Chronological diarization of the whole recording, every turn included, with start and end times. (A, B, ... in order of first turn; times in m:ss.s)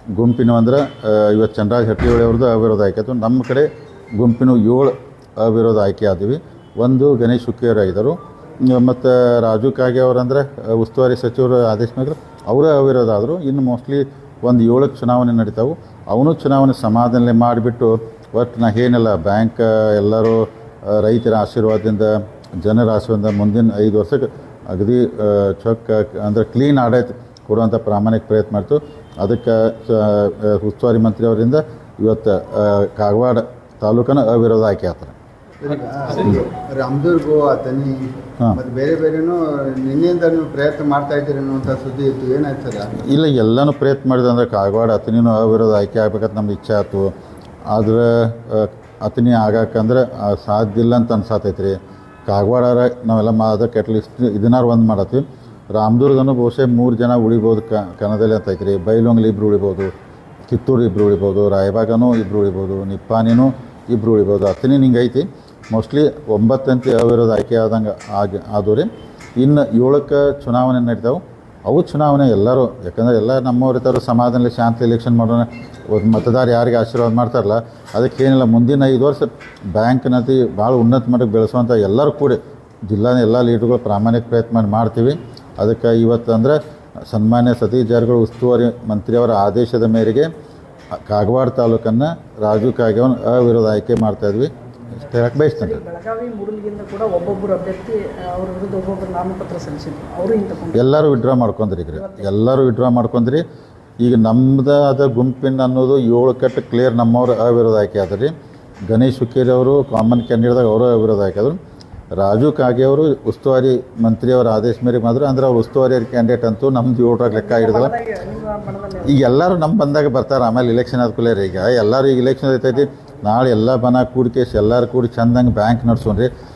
0:00.1-0:35.1 A
0:35.6-0:38.0 B
0:38.5-0:43.0 B
0:43.0-0:47.1 A
0:47.7-0:59.9 A
1:00.5-1:30.3 A
1:30.9-1:35.8 A
1:35.5-1:40.8 C
1:40.7-1:43.4 A
1:42.0-1:42.2 C
1:44.0-1:48.3 A
1:48.9-1:51.6 A
1:52.1-1:58.0 A
1:57.3-1:59.2 C
1:59.0-2:06.3 A